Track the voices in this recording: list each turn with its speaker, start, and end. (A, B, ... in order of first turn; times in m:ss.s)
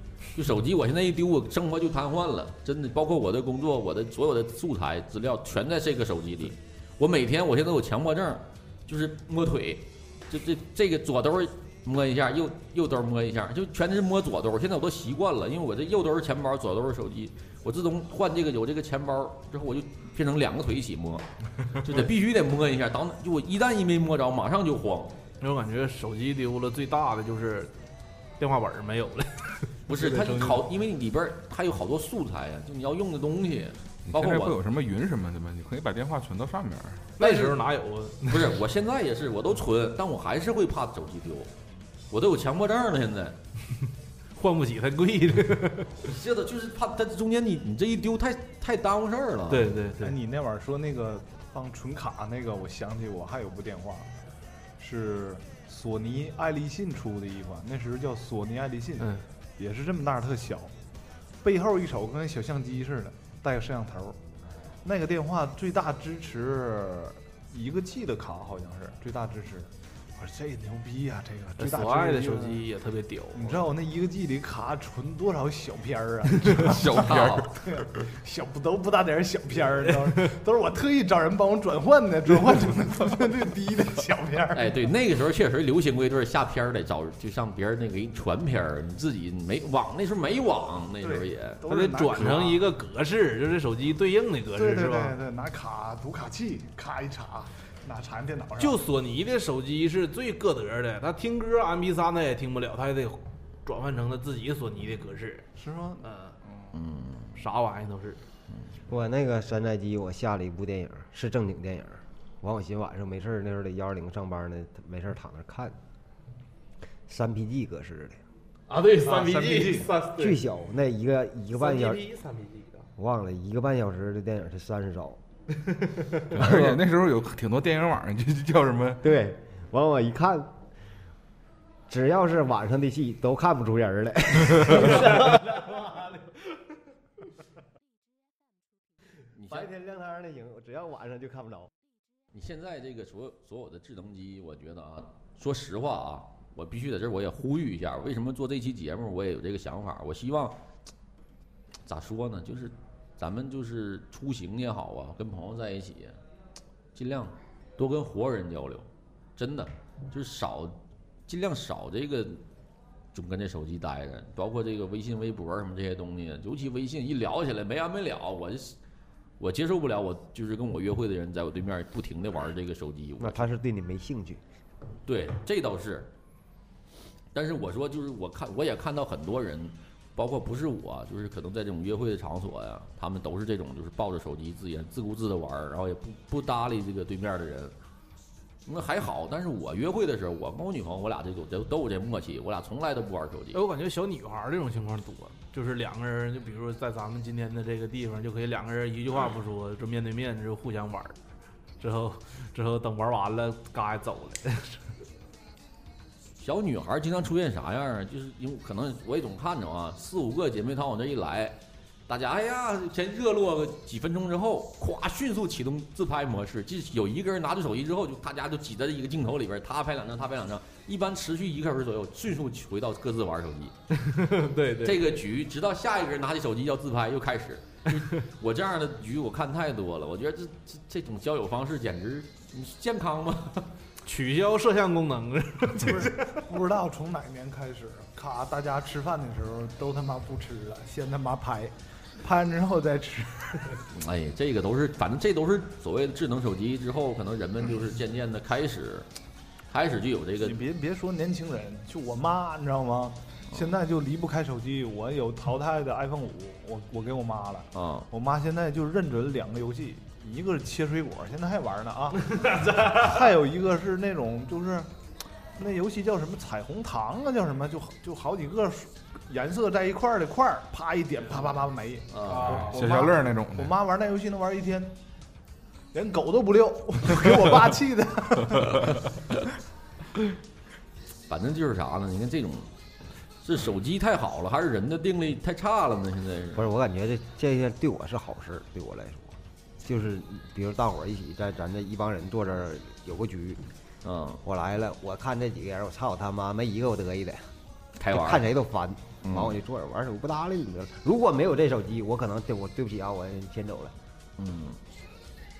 0:00.4-0:25.2 A
0:25.4-0:27.7 B
0:28.4-0:30.6 B
0:29.9-0:34.6 A
0:34.1-0:37.1 C
0:37.2-0:38.5 B
0:37.2-0:37.6 A
0:38.3-0:41.5 A
0:42.1-0:43.4 A
0:44.4-0:46.1 B
0:46.0-0:49.7 A
0:49.5-0:50.2 B
0:50.0-0:54.1 D
0:54.8-1:00.7 D
0:59.0-0:59.2 B
1:01.4-1:04.2 D
1:04.8-1:12.6 D
1:11.6-1:13.6 B
1:13.3-1:24.9 D
1:16.5-1:17.5 C
1:16.9-1:17.5 A
1:24.5-1:31.6 A
1:31.0-1:32.6 D
1:31.7-1:35.2 B
1:34.6-1:38.8 D
1:38.6-1:45.5 B
1:45.6-1:46.7 D
1:46.7-1:47.3 A
1:47.4-1:48.2 B
1:48.9-1:55.8 E
1:57.1-1:58.2 E
1:58.7-2:00.4 B
1:59.0-1:59.9 D
2:00.1-2:02.0 E
2:01.6-2:02.9 B
2:03.0-2:05.2 E
2:06.3-2:09.1 C
2:06.4-2:06.8 E
2:09.0-2:10.6 E
2:11.9-2:16.4 E
2:19.4-2:19.7 A
2:19.5-2:21.7 E
2:22.3-2:30.6 A
2:31.8-2:36.2 A
2:37.0-2:42.4 A
2:43.1-2:48.8 A
2:49.4-2:53.5 A
2:53.2-2:54.4 E
2:55.0-2:56.1 A
2:57.3-3:07.8 A
3:08.7-3:13.6 A
3:13.5-3:21.2 B
3:21.8-3:24.9 B
3:26.4-3:43.7 A
3:43.9-3:45.0 B
3:44.8-3:53.7 A
3:54.0-3:56.3 B
3:55.8-4:03.8 D
4:03.9-4:09.1 A
4:09.7-4:10.6 A
4:10.4-4:24.9 D
4:17.8-4:18.1 A
4:22.4-4:23.0 B
4:25.6-4:35.0 D
4:32.1-4:32.7 A
4:32.2-4:32.8 B
4:32.5-4:33.8 C
4:35.9-4:39.1 D
4:41.3-4:42.7 A
4:43.4-4:46.7 A
4:46.6-4:53.6 E
4:54.0-4:54.4 A
4:54.4-4:57.5 E
4:58.0-4:58.5 A
4:58.1-5:03.9 E
4:59.2-4:59.6 A
5:04.4-5:04.8 A